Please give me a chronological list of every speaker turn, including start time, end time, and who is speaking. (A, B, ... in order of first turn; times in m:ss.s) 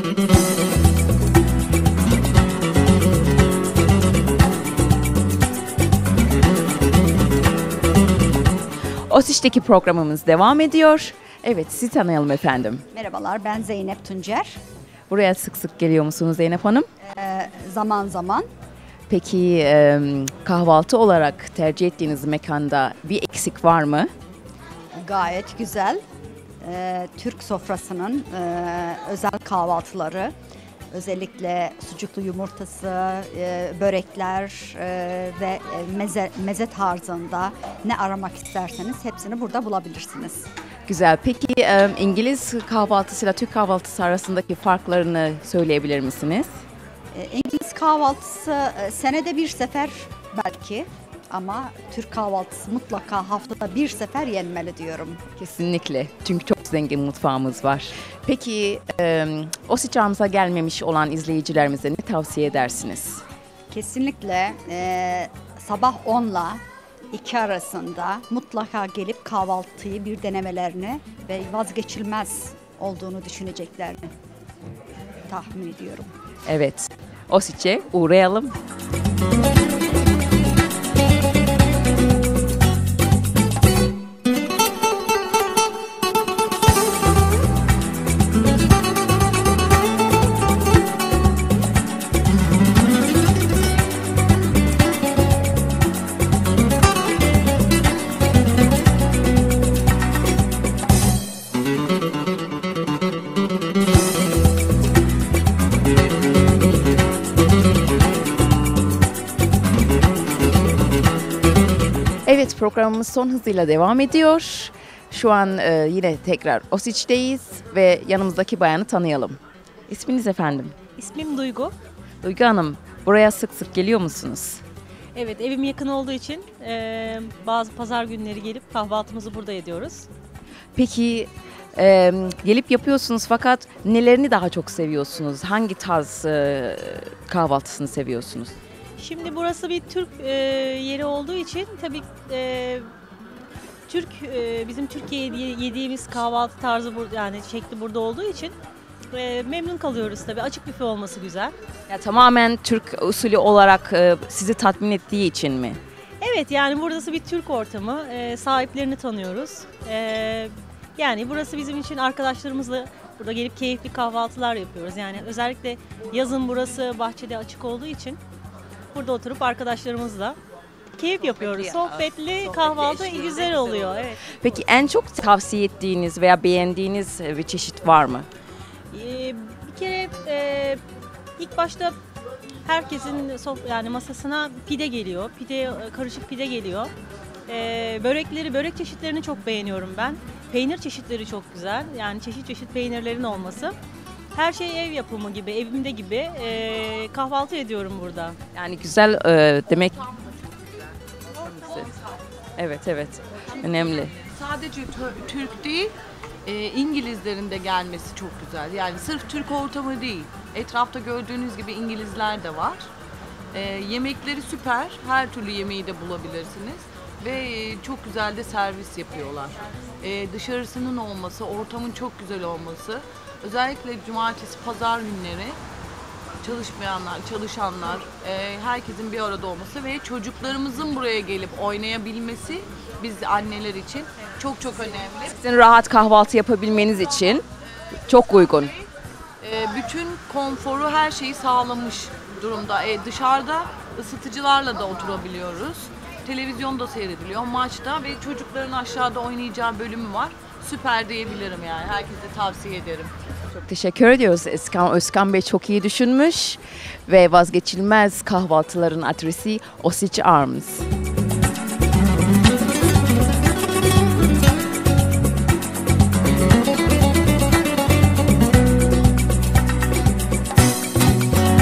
0:09.1-0:12.8 A
0:12.9-0:14.6 B
0:15.1-0:16.9 A
0:17.0-0:18.4 B
0:19.1-0:24.1 A
0:25.0-0:26.0 B
0:26.6-0:30.3 B
0:30.9-0:40.5 B
0:40.9-0:46.5 A
0:47.1-0:55.2 B
0:55.4-1:03.2 A
1:03.7-1:06.6 B
1:07.1-1:14.1 B
1:15.3-1:16.1 B
1:16.4-1:18.6 A
1:52.2-2:00.7 A
2:01.0-2:01.7 C
2:02.2-2:04.6 A
2:05.1-2:10.1 C
2:10.7-2:18.5 A
2:19.0-2:22.9 C
2:23.9-2:28.6 C
2:29.1-2:31.5 C
2:31.9-2:35.8 A
2:36.2-2:48.2 C
2:48.9-2:50.4 C
2:51.0-2:54.2 C
2:51.2-2:58.3 A
2:58.9-3:00.8 C
3:01.4-3:02.0 C
3:02.6-3:06.9 C
3:07.5-3:13.8 C
3:14.3-3:18.4 C
3:18.5-3:20.0 A
3:20.0-3:21.9 D
3:21.6-3:21.9 A
3:22.6-3:24.1 A
3:23.6-3:32.9 D
3:33.5-3:45.6 D
3:46.4-3:55.3 D
3:55.3-3:57.4 A
3:58.1-3:58.7 A
3:59.4-4:13.1 D
4:13.6-4:20.8 A